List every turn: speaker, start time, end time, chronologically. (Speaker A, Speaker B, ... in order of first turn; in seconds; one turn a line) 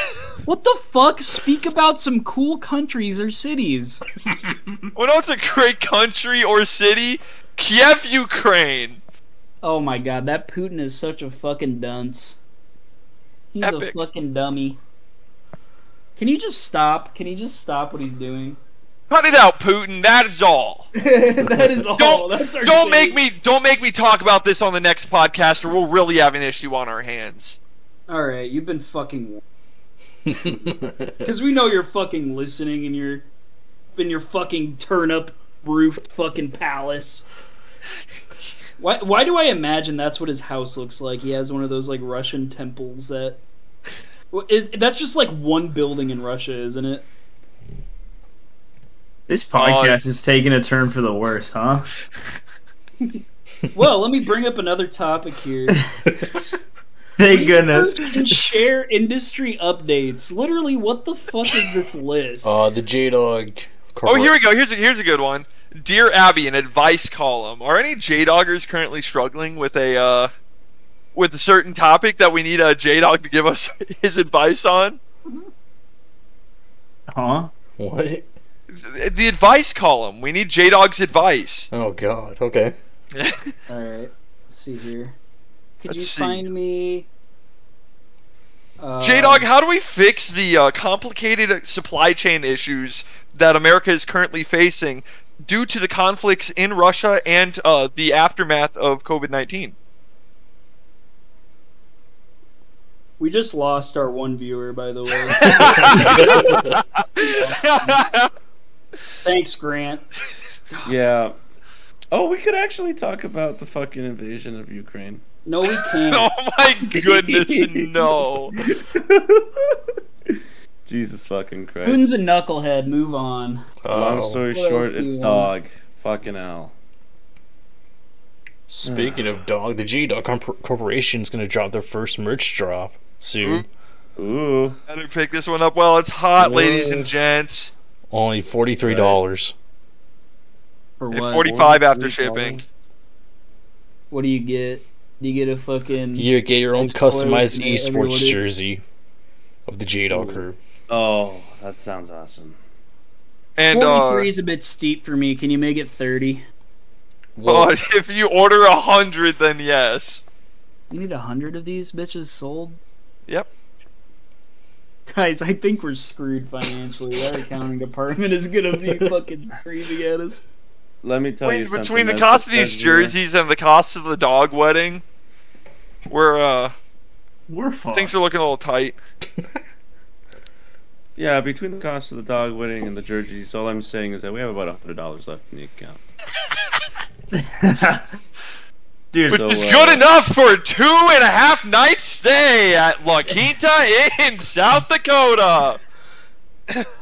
Speaker A: 0.5-4.0
Speaker B: 4.9-9.0
Speaker A: 9.6-12.4
Speaker A: 13.5-14.8
Speaker B: 13.6-14.0
Speaker A: 16.2-18.6
Speaker B: 19.1-20.9
Speaker A: 20.9-23.2
Speaker B: 22.0-27.6
Speaker A: 28.1-29.4
Speaker C: 30.4-31.1
Speaker A: 31.2-33.3
Speaker A: 34.0-37.2
Speaker A: 38.8-43.4
Speaker A: 44.3-47.0
Speaker D: 49.3-51.9
Speaker B: 49.5-50.0
Speaker A: 53.7-55.8
Speaker D: 57.2-58.7
Speaker A: 57.3-62.6
Speaker C: 62.4-64.3
Speaker B: 64.0-70.3
Speaker B: 71.1-75.0
Speaker D: 77.1-77.5
Speaker C: 77.8-78.2
Speaker B: 78.7-81.7
Speaker C: 81.7-82.7
Speaker B: 83.1-83.5
Speaker A: 83.7-85.2
Speaker A: 85.8-87.1
Speaker B: 85.9-86.4
Speaker A: 88.8-89.5
Speaker B: 89.0-99.7
Speaker A: 103.2-106.6
Speaker B: 105.3-108.3
Speaker C: 105.5-106.7
Speaker A: 107.2-108.0
Speaker A: 109.2-110.0
Speaker E: 110.8-111.3
Speaker E: 112.1-115.2
Speaker A: 115.5-116.3
Speaker B: 116.0-118.5
Speaker E: 116.9-119.0
Speaker E: 120.8-122.1
Speaker A: 121.8-123.7
Speaker C: 123.8-124.4
Speaker E: 123.9-126.7
Speaker A: 124.5-125.5
Speaker C: 128.7-133.7
Speaker E: 128.8-129.3
Speaker E: 134.2-134.8
Speaker B: 134.9-137.7
Speaker E: 136.4-137.1
Speaker C: 138.1-139.5
Speaker E: 138.8-139.2
Speaker A: 141.0-141.5
Speaker B: 141.1-142.6
Speaker E: 141.4-142.6
Speaker A: 144.1-148.4
Speaker C: 146.2-148.8
Speaker C: 149.7-150.6
Speaker E: 150.1-152.6
Speaker B: 153.6-154.3
Speaker A: 153.7-156.4
Speaker C: 157.3-157.7
Speaker B: 157.4-160.2
Speaker A: 160.9-162.8
Speaker A: 165.1-170.4
Speaker E: 171.0-173.1
Speaker B: 171.4-175.0
Speaker B: 176.1-176.7
Speaker D: 177.5-178.1
Speaker B: 177.9-179.0
Speaker E: 181.2-186.0
Speaker D: 187.3-188.1
Speaker D: 189.1-189.4
Speaker B: 189.3-195.8
Speaker E: 189.3-190.1